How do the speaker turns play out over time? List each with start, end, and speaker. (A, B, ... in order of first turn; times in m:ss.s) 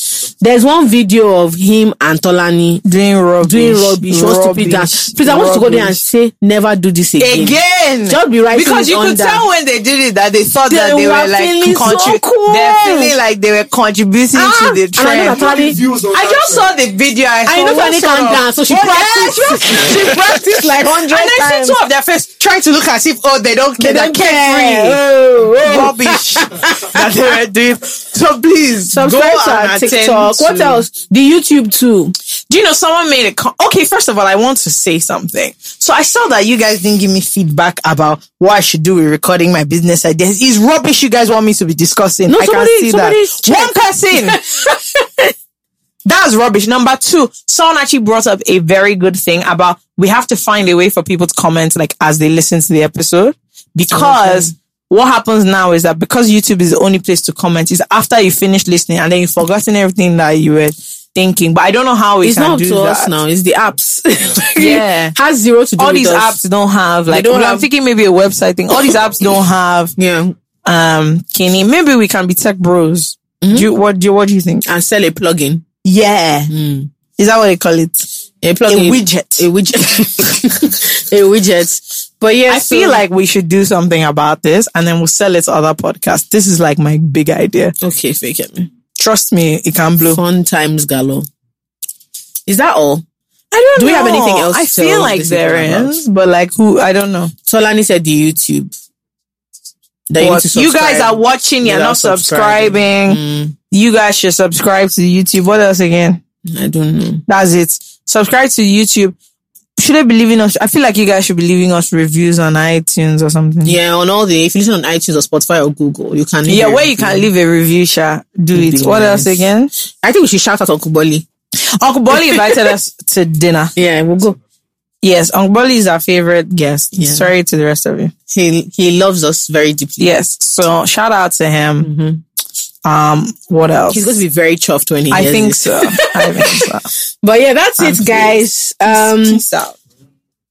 0:00.4-0:02.8 A
0:02.8-0:06.0 B
0:03.4-0:09.4 A
0:07.2-0:25.0 B
0:10.7-0:13.1 A
0:14.3-0:16.0 A
0:17.5-0:21.8 A
0:23.8-0:27.0 A
0:25.6-0:30.8 B
0:28.9-0:32.1 A
0:32.5-0:44.4 B
0:42.3-0:45.1 A
0:46.1-1:03.1 B
0:53.9-0:54.5 A
1:02.2-1:06.4 A
1:04.5-1:05.1 B
1:05.8-1:09.9 B
1:07.1-1:07.7 A
1:10.0-1:10.4 A
1:10.6-1:14.7 B
1:13.4-1:13.7 A
1:14.6-1:15.6 A
1:15.8-1:16.5 B
1:16.5-1:16.9 A
1:17.2-1:18.1 B
1:18.4-1:23.0 A
1:18.7-1:19.5 B
1:22.5-1:27.7 B
1:27.8-1:28.7 A
1:29.0-1:30.2 B
1:30.1-1:31.3 A
1:32.5-1:33.0 A
1:33.5-1:37.3 B
1:33.8-1:36.0 A
1:37.4-1:38.7 A
1:40.1-1:43.6 A
1:40.2-1:43.2 B
1:43.7-1:46.2 B
1:46.5-1:47.2 A
1:47.3-1:49.1 B
1:49.8-1:53.8 B
1:53.6-1:57.3 A
1:56.5-1:59.7 B
1:58.6-1:59.4 A
2:00.0-2:01.3 A
2:01.6-2:03.7 B
2:02.3-2:02.5 A
2:03.8-2:04.4 A
2:05.0-2:08.1 B
2:06.9-2:07.3 A
2:08.3-2:10.1 A
2:10.0-2:11.9 B
2:11.8-2:12.2 A
2:12.8-2:14.2 B
2:13.9-2:19.4 A
2:15.1-2:16.9 B
2:17.8-2:19.8 B